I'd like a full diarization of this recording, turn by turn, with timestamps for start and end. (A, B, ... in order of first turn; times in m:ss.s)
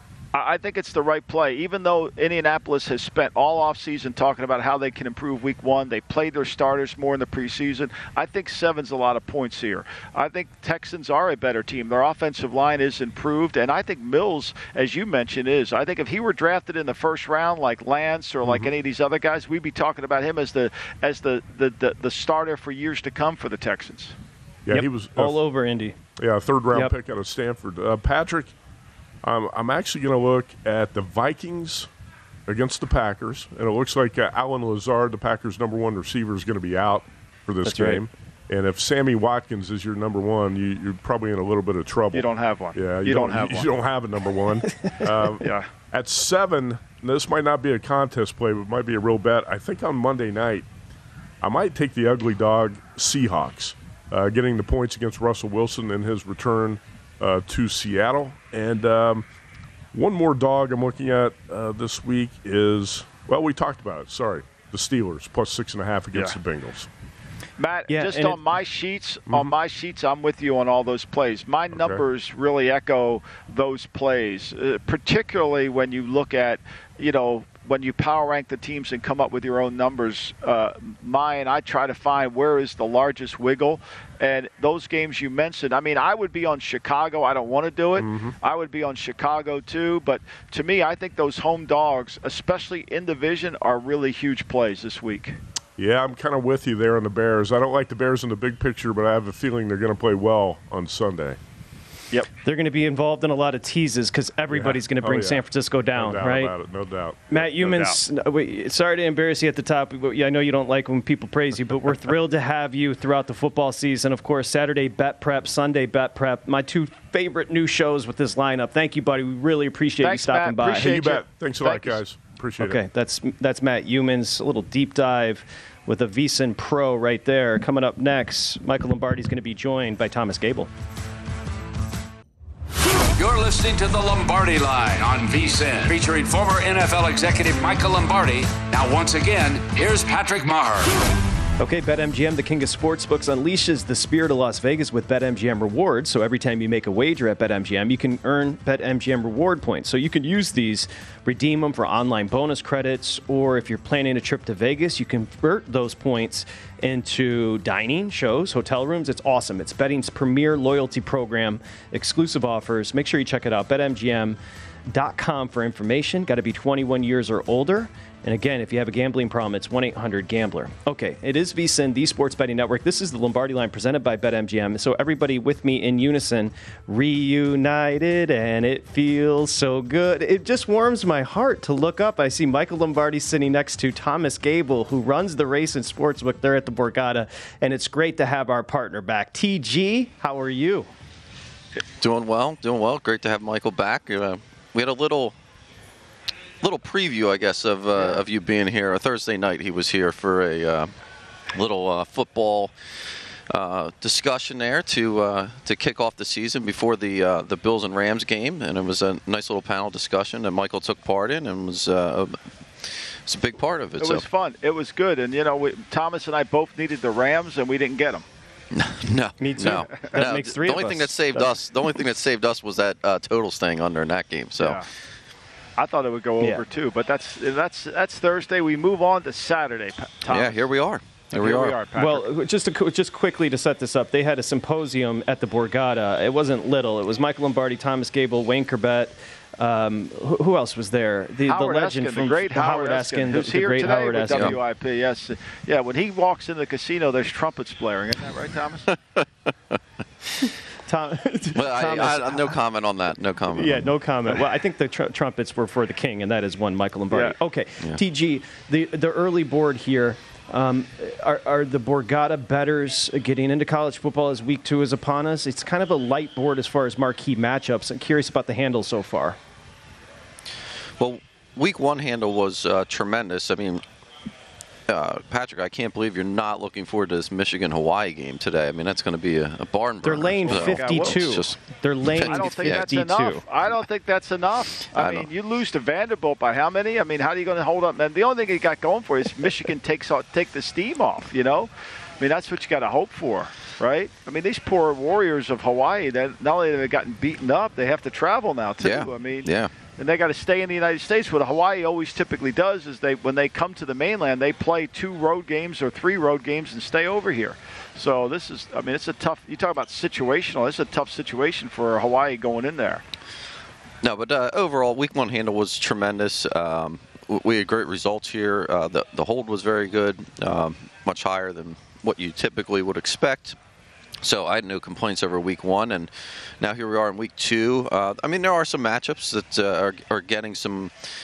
0:00.3-0:24.2 A
0:18.4-0:18.7 B
0:24.7-0:25.4 B
0:24.7-0:26.0 C
0:26.2-0:28.5 B
0:29.2-0:31.9 B
0:32.5-0:50.7 B
0:37.6-0:38.0 C
0:42.1-0:43.7 A
0:45.4-0:45.7 A
0:51.4-0:59.3 B
0:59.9-1:06.9 B
1:07.6-1:35.4 A
1:07.9-1:08.4 C
1:11.7-1:12.0 B
1:28.0-1:28.4 B
1:35.8-1:41.4 B
1:42.4-1:46.5 C
1:44.5-1:47.9 B
1:47.3-2:01.1 C
2:00.0-2:02.0 A
2:00.6-2:02.8 B
2:02.6-2:10.7 C
2:13.2-2:21.0 D
2:21.6-2:44.4 C
2:44.9-3:10.9 C
3:12.0-3:15.4 E
3:16.6-3:20.9 E
3:21.6-3:22.7 E
3:23.5-3:32.3 E
3:33.3-3:34.2 E
3:34.0-3:38.2 A
3:38.7-3:44.8 E
3:39.4-3:41.5 C
3:39.7-3:40.2 A
3:44.6-3:44.9 A
3:45.8-3:50.7 A
3:50.3-3:51.8 E
3:51.3-3:52.3 A
3:51.9-4:04.6 C
4:01.5-4:08.9 A
4:04.3-4:04.6 E
4:10.9-4:12.6 C
4:11.6-4:13.9 E
4:13.5-4:29.4 C
4:31.0-4:33.8 E
4:34.9-4:42.9 E
4:40.0-4:43.4 C
4:40.5-4:41.4 A
4:42.2-5:13.0 A
4:44.8-4:45.3 E
4:58.8-4:59.7 E
5:14.0-5:23.6 E
5:24.2-5:26.1 E
5:26.6-5:30.9 E